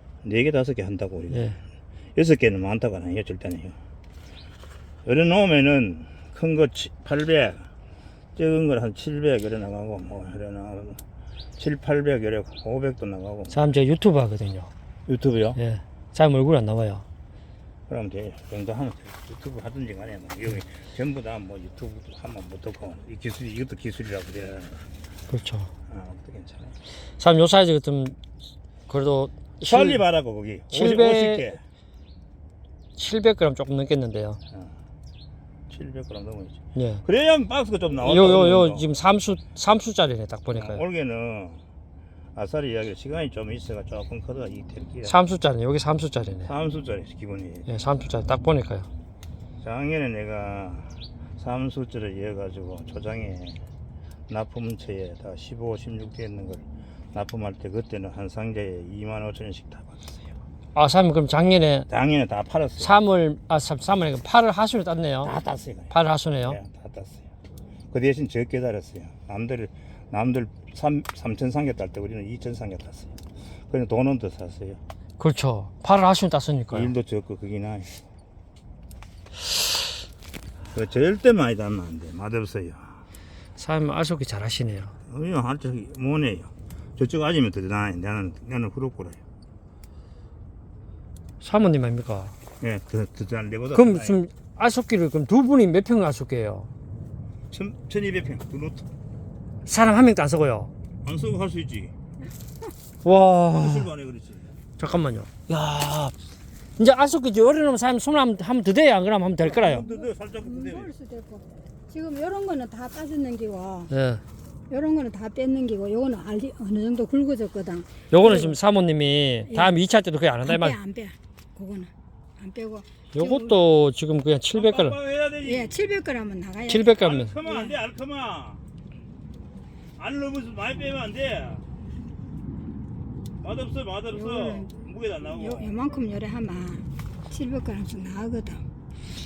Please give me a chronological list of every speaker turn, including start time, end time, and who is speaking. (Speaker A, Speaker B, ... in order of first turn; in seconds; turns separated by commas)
Speaker A: 0.2-1.6, Speaker B: 1.3-1.6, Speaker A: 2.1-3.8, Speaker A: 5.0-7.7, Speaker A: 8.3-11.0, Speaker A: 11.6-13.6, Speaker B: 13.5-14.7, Speaker A: 15.1-15.6, Speaker B: 15.6-17.1, Speaker A: 17.9-24.9, Speaker B: 25.3-25.7, Speaker A: 25.9-26.8, Speaker B: 27.2-28.2, Speaker B: 28.9-30.0, Speaker A: 29.6-31.6, Speaker B: 30.7-31.6, Speaker B: 33.0-34.4, Speaker A: 35.7-38.9, Speaker B: 36.7-37.0, Speaker B: 38.0-40.8, Speaker A: 40.5-41.6, Speaker A: 42.3-45.1, Speaker B: 45.0-46.5, Speaker A: 46.5-47.7, Speaker B: 47.7-48.9, Speaker A: 49.6-53.6, Speaker A: 54.3-60.3, Speaker B: 60.7-61.9, Speaker A: 61.9-62.9, Speaker B: 62.8-65.3, Speaker A: 65.2-65.9, Speaker B: 65.9-66.6, Speaker A: 66.5-67.3, Speaker A: 67.9-74.8, Speaker B: 75.2-76.9, Speaker A: 76.7-77.9, Speaker A: 80.7-83.0, Speaker B: 83.6-84.9, Speaker A: 85.1-89.2, Speaker B: 91.4-92.3, Speaker A: 92.6-94.2, Speaker B: 93.7-96.7, Speaker A: 97.5-98.9, Speaker B: 99.7-100.7, Speaker A: 101.0-101.9, Speaker B: 103.0-103.9, Speaker A: 103.5-104.6, Speaker B: 104.8-106.1, Speaker B: 106.8-109.8, Speaker A: 109.4-110.9, Speaker C: 109.6-113.9, Speaker B: 113.9-114.2, Speaker C: 114.7-118.5, Speaker B: 118.1-120.8, Speaker C: 119.5-119.8, Speaker C: 120.4-123.6, Speaker B: 123.1-125.0, Speaker A: 124.5-125.7, Speaker C: 125.4-127.8, Speaker B: 126.7-127.3, Speaker A: 127.0-128.6, Speaker A: 130.0-131.6, Speaker A: 133.4-136.0, Speaker C: 134.1-138.6